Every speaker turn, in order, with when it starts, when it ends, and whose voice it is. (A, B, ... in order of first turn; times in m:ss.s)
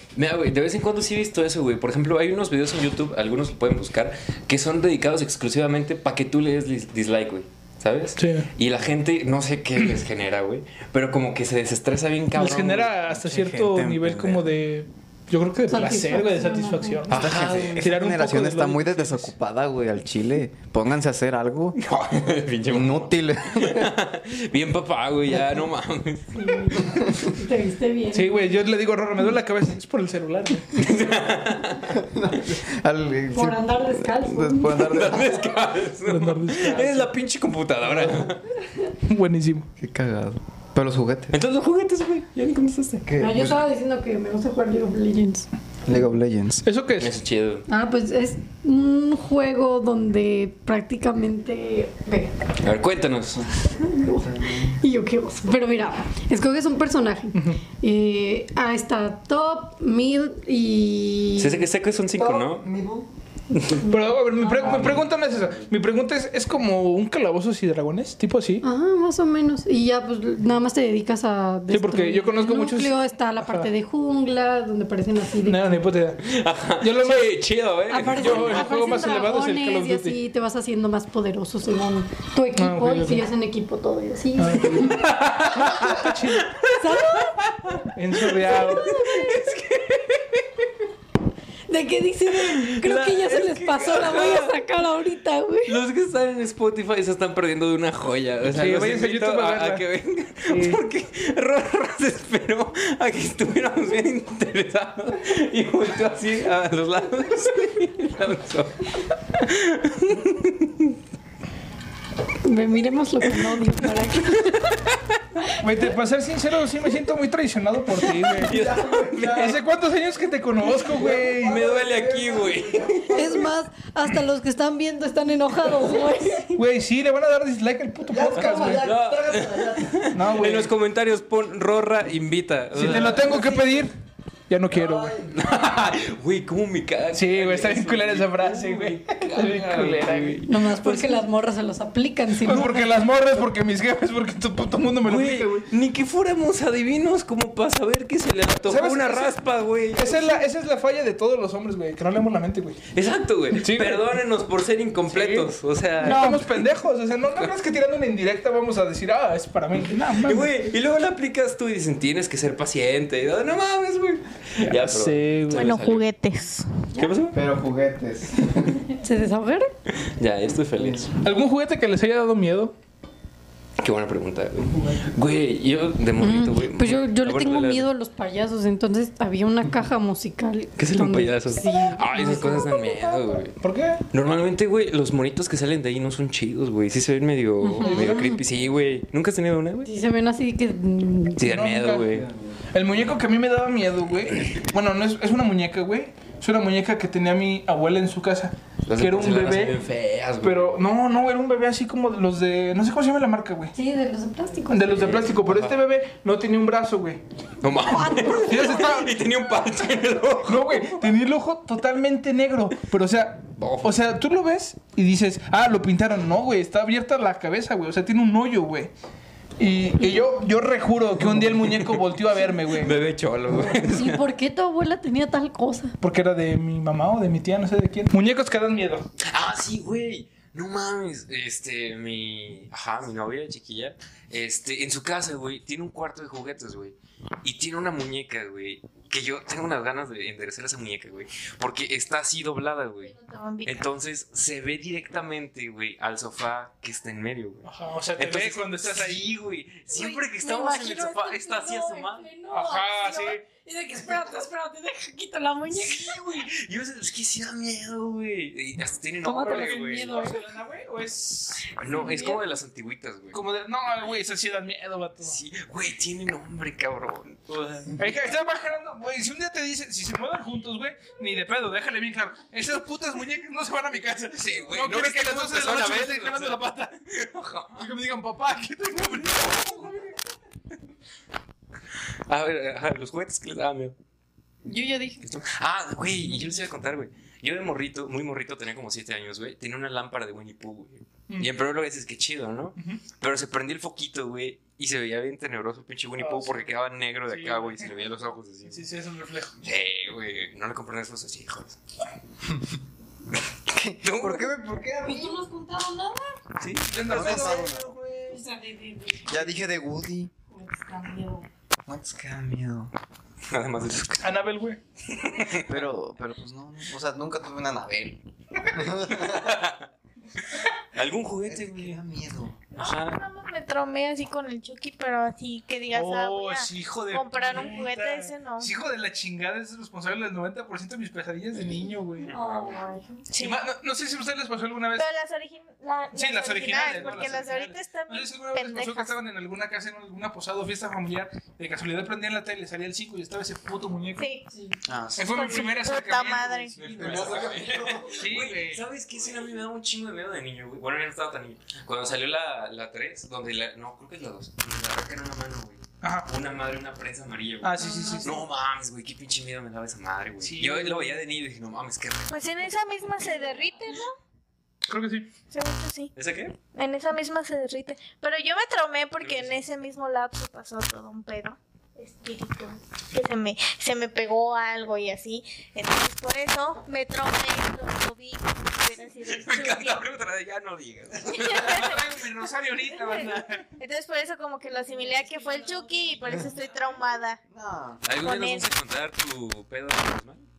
0:00.1-0:13.0 A
0:08.2-0:08.5 B
0:12.4-0:19.3 B
0:13.2-0:14.4 C
0:15.7-0:17.0 D
0:17.1-0:17.9 A
0:17.1-0:21.8 C
0:21.8-0:26.8 A
0:22.7-0:23.9 C
0:26.3-0:28.5 D
0:28.1-0:30.8 B
0:30.8-0:32.0 A
0:31.9-0:35.4 C
0:33.3-0:34.9 D
0:34.7-0:38.5 A
0:36.0-0:37.1 B
0:37.9-0:38.3 C
0:39.0-0:39.7 B
0:39.8-0:41.4 C
0:41.3-0:43.1 A
0:43.0-0:43.6 C
0:43.2-0:45.5 D
0:45.9-0:46.6 C
0:46.6-0:47.1 B
0:47.0-0:47.6 A
0:47.7-0:52.4 D
0:52.6-0:53.5 A
0:53.8-1:01.6 D
0:54.1-0:54.8 C
0:57.3-0:57.6 B
1:01.4-1:02.7 A
1:02.2-1:03.1 C
1:03.5-1:03.8 A
1:03.8-1:04.8 D
1:03.9-1:08.6 B
1:04.6-1:05.0 A
1:08.6-1:15.8 D
1:11.7-1:13.7 B
1:15.4-1:16.2 B
1:16.2-1:18.8 A
1:16.8-1:17.3 B
1:17.9-1:25.0 D
1:18.1-1:20.2 B
1:22.6-1:23.3 B
1:24.4-1:26.6 B
1:24.9-1:30.7 A
1:26.8-1:27.4 D
1:27.9-1:28.9 B
1:28.6-1:29.4 D
1:31.7-1:35.8 D
1:32.3-1:34.6 A
1:35.6-1:51.0 A
1:38.5-1:39.8 B
1:40.5-1:40.8 B
1:52.4-1:54.7 D
1:53.3-1:55.2 A
1:55.6-1:58.6 B
1:58.1-1:59.6 A
1:58.4-1:59.6 C
1:59.3-2:01.6 B
2:00.8-2:03.5 C
2:01.3-2:03.4 A
2:03.1-2:06.6 D
2:06.6-2:08.9 B
2:08.1-2:10.1 C
2:08.4-2:13.5 A
2:10.1-2:10.7 B
2:12.7-2:14.0 B
2:14.5-2:15.2 B
2:14.7-2:15.3 C
2:15.3-2:21.2 A
2:17.1-2:20.4 B
2:20.5-2:22.9 D
2:22.4-2:25.7 B
2:25.0-2:30.4 A
2:28.6-2:29.4 B
2:29.9-2:32.8 B
2:32.9-2:36.6 A
2:33.6-2:34.1 B
2:35.1-2:40.5 B
2:40.1-2:46.1 A
2:44.6-2:45.8 B
2:45.5-2:46.9 E
2:46.9-2:47.4 A
2:47.3-2:48.8 C
2:49.0-2:49.7 D
2:49.9-2:51.2 A
2:50.8-2:51.1 C
2:51.2-2:52.7 B
2:53.8-2:57.9 A
2:54.8-2:55.1 B
2:56.2-3:03.2 D
3:00.8-3:03.6 A
3:03.6-3:04.0 B
3:04.1-3:09.9 A
3:07.6-3:08.4 D
3:09.8-3:11.4 D
3:11.4-3:12.3 A
3:11.4-3:19.8 B
3:18.9-3:20.8 A
3:20.4-3:23.7 B
3:23.7-3:25.0 D
3:24.7-3:27.2 B
3:24.9-3:25.8 A
3:27.6-3:31.0 A
3:27.9-3:28.9 D
3:28.4-3:29.2 B
3:30.4-3:38.9 B
3:33.6-3:33.9 A
3:39.6-3:43.0 B
3:41.4-3:42.0 A
3:42.6-3:44.2 A
3:43.6-3:46.0 D
3:46.0-3:49.1 B
3:49.2-4:12.3 A
4:03.1-4:03.9 E
4:07.6-4:09.2 B
4:09.9-4:16.2 D
4:12.5-4:13.4 B
4:15.7-4:20.2 A
4:19.2-4:20.4 D
4:19.4-4:22.2 B
4:21.7-4:23.4 A
4:21.9-4:22.4 D
4:23.3-4:25.4 B
4:25.2-4:27.9 A
4:28.0-4:36.7 B
4:34.4-4:37.9 A
4:37.8-4:40.1 B
4:39.1-4:40.0 A
4:42.3-4:44.0 A
4:44.6-4:45.2 D
4:45.2-4:58.8 A
4:56.2-4:56.7 B
4:57.3-4:57.9 B
4:58.6-4:59.6 B
4:59.6-5:01.8 A
5:02.4-5:02.7 C
5:03.7-5:05.4 C
5:04.0-5:04.5 A
5:05.0-5:06.4 D
5:06.6-5:07.6 A
5:06.6-5:08.4 B
5:07.0-5:07.9 C
5:08.3-5:09.4 D
5:09.3-5:10.3 C
5:10.5-5:11.5 D
5:11.9-5:12.9 C
5:13.5-5:14.3 A
5:14.2-5:14.8 B
5:15.1-5:15.9 A
5:15.6-5:19.6 C
5:19.1-5:19.9 A
5:20.6-5:22.0 A
5:21.5-5:22.6 C
5:22.8-5:23.2 A
5:22.8-5:28.7 E
5:25.9-5:32.3 B
5:32.2-5:32.8 A
5:32.3-5:33.2 D
5:33.3-5:33.6 E
5:33.4-5:35.1 B
5:34.9-5:39.2 E
5:36.1-5:44.3 B
5:44.2-5:44.5 E
5:44.5-5:44.8 D
5:44.8-5:45.6 C
5:45.2-5:47.5 B
5:45.3-5:46.8 E
5:46.8-6:02.8 A
5:46.8-5:48.2 C
5:48.1-5:48.8 B
5:56.0-5:56.3 B
5:57.6-5:58.4 B
5:57.8-5:58.2 D
6:00.4-6:01.2 B
6:02.3-6:04.2 E
6:04.9-6:05.3 B
6:05.5-6:06.1 E
6:06.2-6:06.6 A
6:06.7-6:20.0 E
6:09.2-6:09.6 A
6:19.2-6:22.0 A
6:21.3-6:22.1 E
6:21.5-6:23.7 B
6:23.0-6:27.4 E
6:24.9-6:26.1 D
6:27.5-6:28.1 C
6:28.0-6:30.5 A
6:28.2-6:28.7 E